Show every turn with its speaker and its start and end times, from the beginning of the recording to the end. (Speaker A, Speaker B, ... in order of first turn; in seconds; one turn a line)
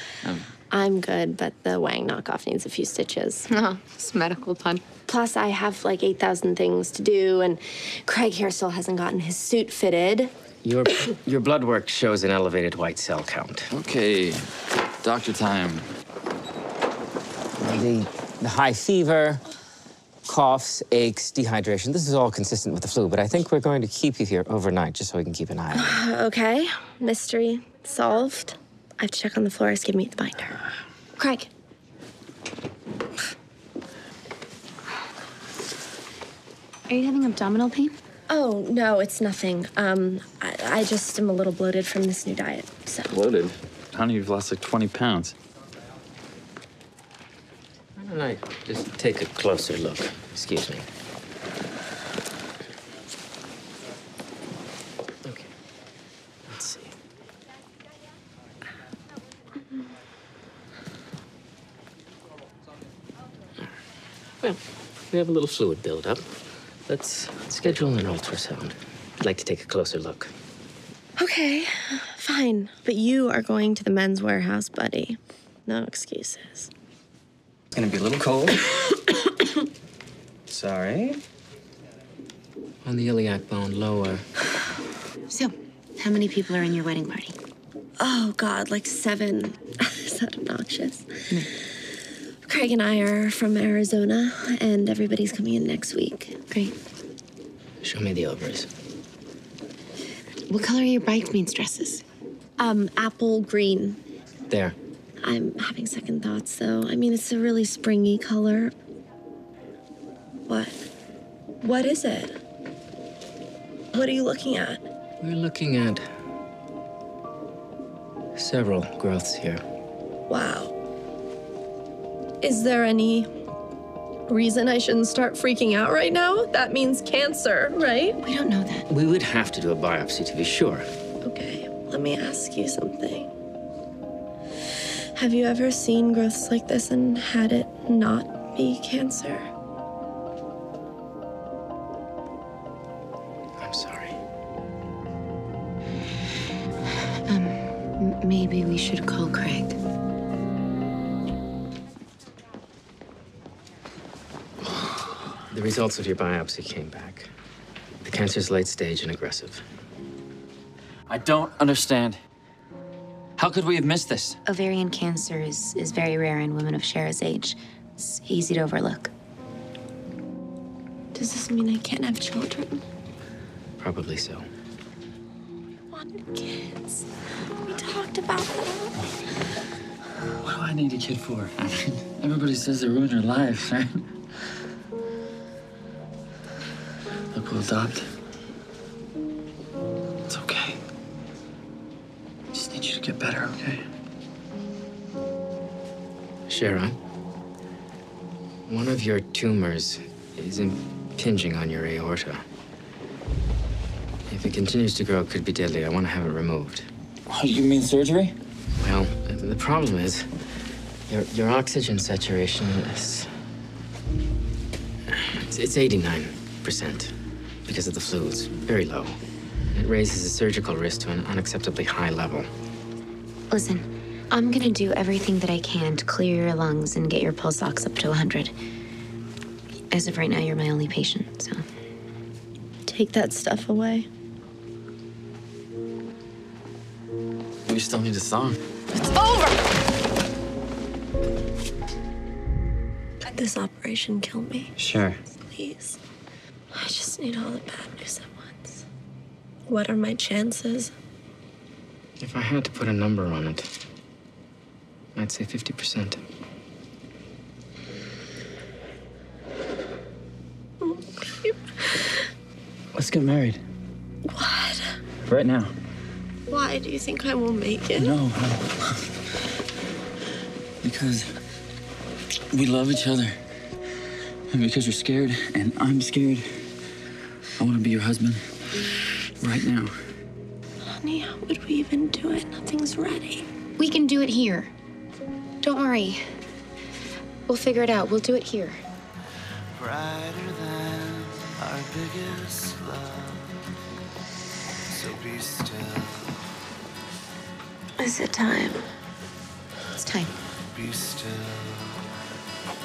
Speaker A: 0.7-3.5
Speaker B: 3.5-4.8
Speaker A: 5.1-10.3
Speaker C: 10.6-13.7
Speaker D: 13.7-14.5
Speaker D: 15.0-15.9
Speaker C: 17.6-19.4
Speaker C: 20.2-26.0
Speaker A: 25.7-30.6
Speaker A: 31.2-31.5
Speaker B: 36.9-38.0
Speaker A: 38.3-43.2
Speaker D: 43.1-45.3
Speaker C: 48.0-50.9
Speaker C: 56.5-56.9
Speaker C: 65.1-66.2
Speaker C: 66.9-70.3
Speaker A: 71.2-76.7
Speaker C: 77.7-78.6
Speaker C: 80.5-81.2
Speaker C: 82.8-84.2
Speaker B: 85.3-87.3
Speaker A: 88.0-91.5
Speaker A: 92.4-96.4
Speaker B: 96.5-96.7
Speaker C: 97.8-98.7
Speaker B: 100.5-102.0
Speaker A: 102.6-104.0
Speaker C: 104.5-104.8
Speaker A: 105.2-108.7
Speaker A: 110.5-110.8
Speaker A: 111.6-112.3
Speaker A: 113.9-114.8
Speaker C: 115.2-116.0
Speaker C: 118.3-119.6
Speaker A: 120.3-120.7
Speaker A: 122.4-123.3
Speaker A: 124.3-128.2
Speaker B: 128.2-128.8
Speaker C: 128.9-130.8
Speaker A: 131.2-133.3
Speaker A: 135.2-139.5
Speaker C: 143.6-144.2
Speaker B: 147.3-149.8
Speaker C: 155.5-157.3
Speaker C: 158.0-159.6
Speaker D: 161.1-162.2
Speaker D: 163.4-164.4
Speaker B: 164.4-169.1
Speaker A: 171.1-172.8
Speaker C: 173.8-174.5
Speaker A: 175.9-177.1
Speaker A: 177.6-178.9
Speaker D: 180.4-184.0
Speaker D: 187.3-188.0
Speaker D: 190.3-190.8
Speaker D: 192.5-193.8
Speaker C: 196.5-196.9
Speaker C: 198.7-202.4
Speaker C: 204.3-206.9
Speaker D: 207.3-208.3
Speaker C: 208.8-210.2
Speaker C: 211.1-213.3
Speaker C: 215.1-217.1
Speaker C: 217.7-219.2
Speaker C: 219.7-222.5
Speaker B: 223.5-228.6
Speaker B: 229.9-231.6
Speaker A: 232.9-234.1
Speaker D: 237.6-238.6
Speaker A: 239.0-239.3
Speaker A: 243.2-244.7
Speaker D: 244.8-245.2
Speaker A: 245.5-246.0
Speaker A: 246.7-248.8
Speaker A: 249.7-250.9
Speaker C: 252.2-253.7
Speaker C: 255.2-256.2
Speaker A: 260.8-262.0
Speaker D: 262.9-263.6
Speaker A: 264.3-264.9
Speaker D: 265.2-265.7
Speaker A: 266.5-268.2
Speaker D: 268.0-269.0
Speaker D: 270.8-271.3
Speaker D: 272.5-273.4
Speaker D: 274.5-276.5
Speaker D: 277.6-278.4
Speaker D: 279.4-279.9
Speaker A: 280.8-283.5
Speaker B: 283.8-284.7
Speaker B: 285.6-286.2
Speaker B: 287.5-288.8
Speaker E: 289.7-293.4
Speaker E: 294.9-296.3
Speaker B: 298.0-298.9
Speaker B: 299.9-300.3
Speaker E: 300.7-301.9